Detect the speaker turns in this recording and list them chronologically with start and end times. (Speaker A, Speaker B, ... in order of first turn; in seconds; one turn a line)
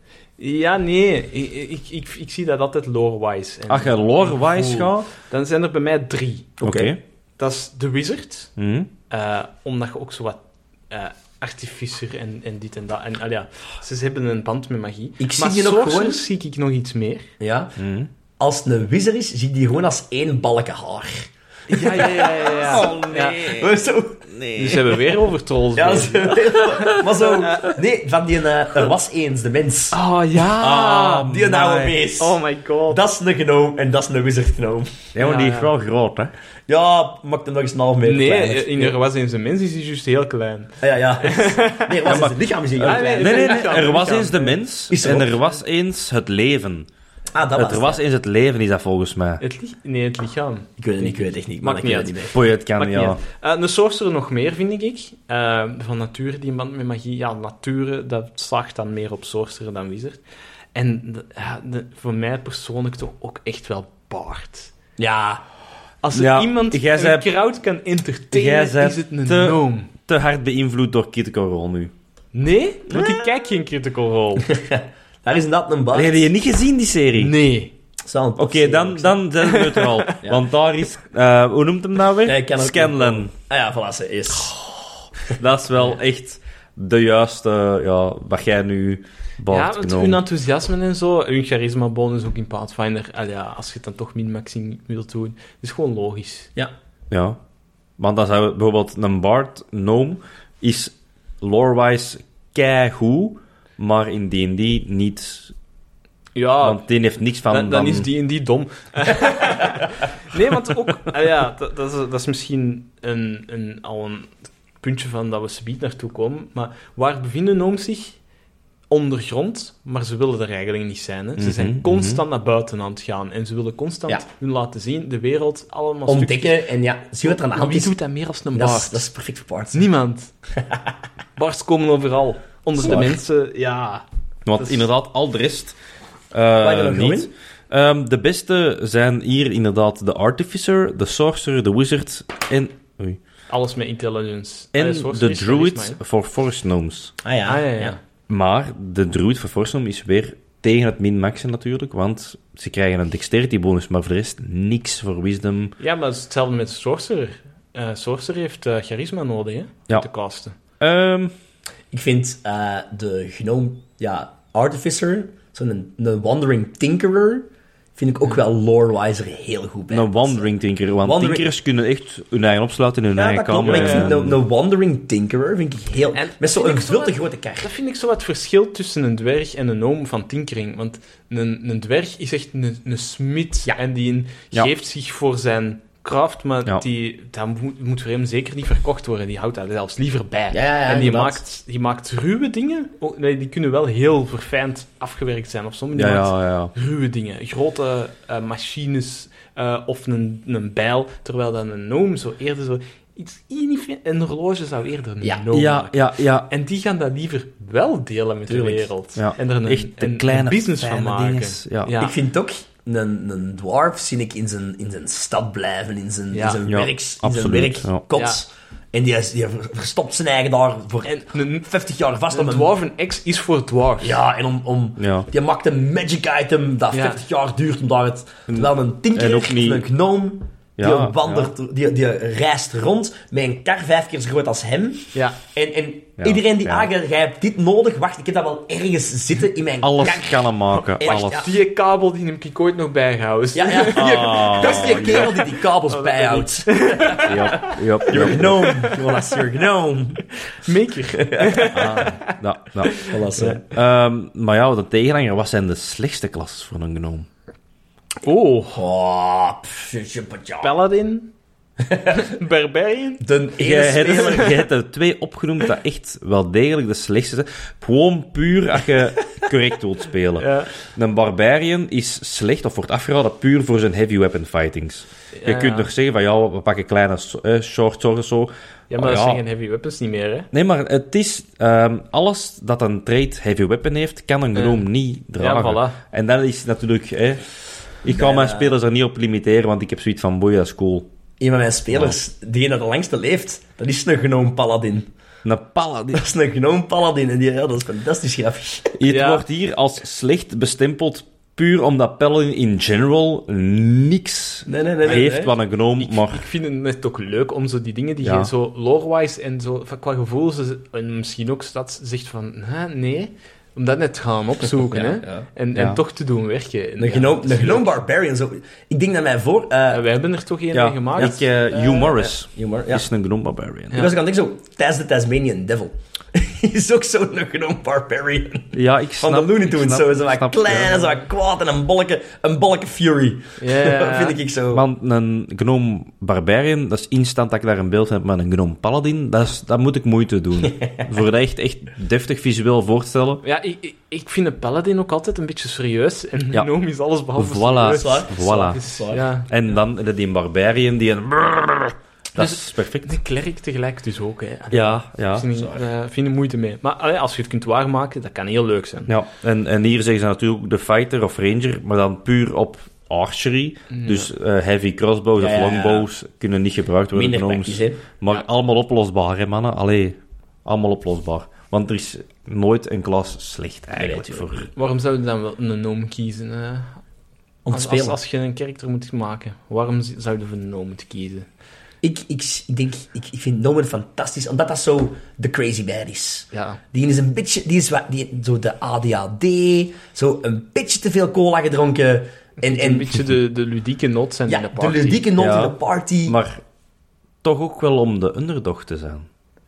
Speaker A: 0.4-6.5
Speaker B: 3.7-5.1
Speaker C: 6.6-7.0
Speaker B: 6.6-7.0
Speaker A: 7.4-8.5
Speaker B: 8.6-8.9
Speaker A: 9.1-17.3
Speaker C: 15.2-16.2
Speaker C: 17.4-17.8
Speaker B: 17.8-18.1
Speaker C: 18.4-24.3
Speaker A: 21.7-23.6
Speaker B: 22.3-23.8
Speaker B: 24.3-24.9
Speaker A: 24.5-26.4
Speaker C: 25.8-30.0
Speaker B: 26.7-27.0
Speaker A: 29.9-31.3
Speaker B: 30.5-32.0
Speaker C: 31.1-35.1
Speaker A: 32.2-33.0
Speaker B: 35.1-36.3
Speaker A: 35.2-35.7
Speaker C: 36.7-39.0
Speaker A: 38.0-42.2
Speaker C: 40.8-43.8
Speaker B: 42.0-46.9
Speaker A: 42.8-44.5
Speaker C: 44.9-45.4
Speaker C: 47.3-48.0
Speaker B: 47.5-49.4
Speaker A: 49.4-60.2
Speaker C: 50.8-52.4
Speaker B: 52.3-53.2
Speaker A: 60.7-64.7
Speaker C: 65.0-65.4
Speaker A: 66.0-69.9
Speaker B: 66.1-67.3
Speaker B: 68.3-71.9
Speaker A: 72.3-74.5
Speaker B: 72.9-73.2
Speaker C: 74.5-76.3
Speaker B: 75.9-77.3
Speaker A: 77.2-77.7
Speaker C: 78.0-79.2
Speaker B: 78.4-83.3
Speaker A: 79.4-80.2
Speaker C: 82.2-84.6
Speaker B: 85.3-90.2
Speaker A: 89.5-96.5
Speaker B: 97.1-97.4
Speaker B: 98.0-105.5
Speaker A: 106.3-106.8
Speaker B: 106.6-108.1
Speaker A: 107.5-118.2
Speaker A: 118.9-126.6
Speaker B: 121.4-122.2
Speaker C: 126.1-127.9
Speaker A: 127.2-129.0
Speaker C: 128.5-129.9
Speaker A: 129.7-130.3
Speaker A: 131.4-134.0
Speaker B: 132.8-133.1
Speaker B: 134.4-135.7
Speaker A: 134.6-134.9
Speaker B: 136.3-143.2
Speaker C: 136.6-137.3
Speaker A: 143.5-146.0
Speaker B: 144.7-147.1
Speaker C: 147.2-148.0
Speaker A: 147.4-148.0
Speaker B: 148.3-155.7
Speaker A: 155.8-160.5
Speaker B: 160.8-161.3
Speaker C: 161.9-170.4
Speaker B: 169.9-174.4
Speaker C: 171.0-171.4
Speaker C: 173.1-177.7
Speaker A: 173.6-174.1
Speaker A: 176.1-212.1
Speaker C: 190.5-191.4
Speaker B: 195.9-196.7
Speaker C: 205.2-205.5
Speaker B: 205.5-206.5
Speaker C: 208.5-208.9
Speaker B: 209.2-211.9
Speaker C: 212.0-222.7
Speaker A: 216.3-216.6
Speaker B: 216.7-218.0
Speaker A: 218.1-218.4
Speaker A: 221.0-221.7
Speaker A: 222.3-224.2
Speaker C: 224.0-240.5
Speaker B: 225.0-225.3
Speaker A: 226.9-227.2
Speaker B: 228.5-229.8
Speaker B: 230.8-231.5
Speaker B: 236.2-236.9
Speaker B: 239.8-241.5
Speaker A: 240.8-249.0
Speaker C: 241.0-241.5
Speaker C: 243.5-250.2
Speaker B: 243.9-245.3
Speaker B: 247.2-248.5
Speaker A: 250.4-253.6
Speaker C: 251.2-251.7
Speaker B: 251.7-253.0
Speaker C: 252.9-253.6
Speaker B: 253.7-257.3
Speaker A: 258.2-258.8
Speaker C: 258.7-260.8
Speaker A: 260.6-261.3
Speaker C: 261.8-262.2
Speaker A: 262.1-263.2
Speaker C: 263.2-264.6
Speaker B: 263.6-279.4
Speaker A: 270.4-270.7
Speaker A: 275.3-275.9
Speaker A: 278.9-280.5
Speaker B: 280.5-287.4
Speaker A: 284.5-284.8
Speaker A: 285.4-286.0
Speaker B: 288.0-291.1
Speaker C: 288.1-288.7
Speaker C: 291.4-295.1
Speaker B: 295.4-296.2
Speaker C: 296.1-299.0
Speaker B: 299.0-306.4
Speaker A: 299.1-299.4
Speaker C: 304.7-305.5
Speaker A: 306.0-318.0
Speaker B: 308.2-308.5
Speaker C: 314.9-315.4
Speaker C: 317.0-320.0
Speaker A: 319.9-322.3
Speaker B: 320.7-324.0
Speaker C: 322.5-323.1
Speaker C: 323.9-334.8
Speaker B: 328.7-331.0
Speaker A: 333.6-334.4
Speaker B: 334.7-343.4
Speaker C: 340.6-341.0
Speaker A: 343.4-349.5
Speaker B: 347.4-348.8
Speaker C: 347.9-349.3
Speaker B: 349.5-353.1
Speaker A: 352.4-359.1
Speaker B: 354.7-355.5
Speaker B: 359.1-374.7
Speaker A: 363.9-364.3
Speaker C: 365.4-366.1
Speaker C: 367.1-368.0
Speaker C: 374.0-374.5
Speaker A: 374.7-377.0
Speaker C: 377.6-378.2
Speaker A: 377.7-381.5
Speaker C: 382.0-393.2
Speaker A: 386.5-386.8
Speaker A: 392.6-395.2
Speaker C: 394.5-396.4
Speaker B: 395.4-396.6
Speaker B: 397.4-399.2